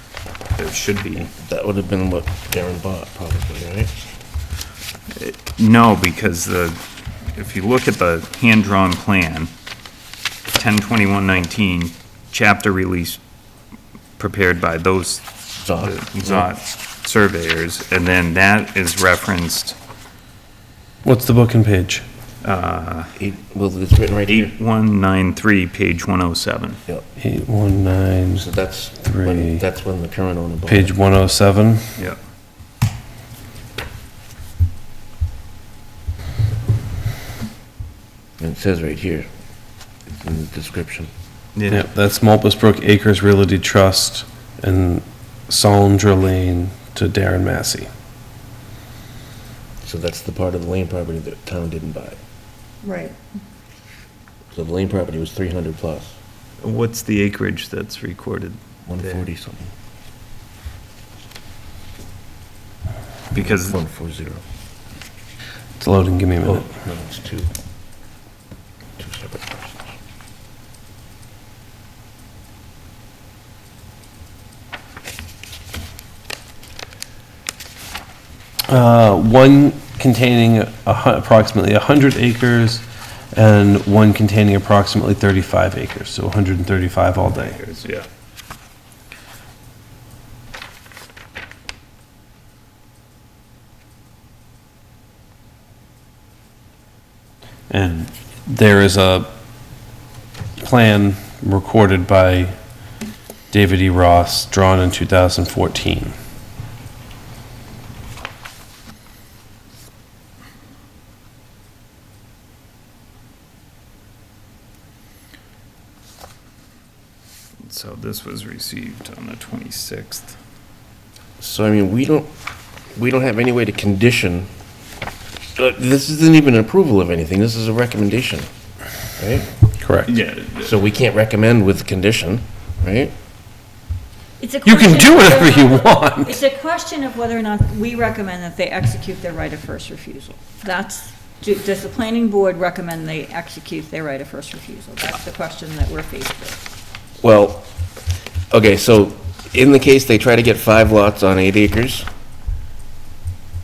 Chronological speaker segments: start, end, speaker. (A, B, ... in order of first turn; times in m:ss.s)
0:00.6-0:01.3 A
0:01.3-0:04.1 B
0:05.2-0:06.8 A
0:07.4-0:09.5 A
0:10.5-0:13.2 A
0:14.2-0:19.8 A
0:15.6-0:16.5 B
0:21.0-0:22.0 C
0:22.4-0:23.1 A
0:23.2-0:24.6 B
0:24.3-0:26.8 A
0:27.2-0:28.4 C
0:28.4-0:30.9 B
0:29.0-0:29.6 C
0:30.7-0:31.9 C
0:38.4-0:39.3 B
0:40.1-0:41.1 B
0:41.6-0:41.9 A
0:41.7-0:47.9 C
0:49.8-0:52.2 B
0:52.8-0:53.2 D
0:54.5-0:56.1 B
0:56.6-0:59.2 A
0:58.9-0:59.7 B
1:03.3-1:03.8 A
1:03.4-1:04.4 B
1:05.8-1:06.7 C
1:06.4-1:07.5 B
1:09.0-1:09.9 B
1:18.7-1:27.6 C
1:27.4-1:28.1 A
1:37.7-1:39.3 C
1:40.6-1:42.6 C
1:43.5-1:46.2 C
1:57.7-2:00.4 A
2:01.4-2:02.3 B
2:03.0-2:04.5 B
2:05.6-2:08.5 B
2:09.2-2:09.5 B
2:09.8-2:10.1 C
2:10.1-2:10.7 A
2:10.6-2:13.1 B
2:14.4-2:26.6 D
2:14.6-2:16.4 C
2:27.2-2:27.7 B
2:28.5-2:32.1 B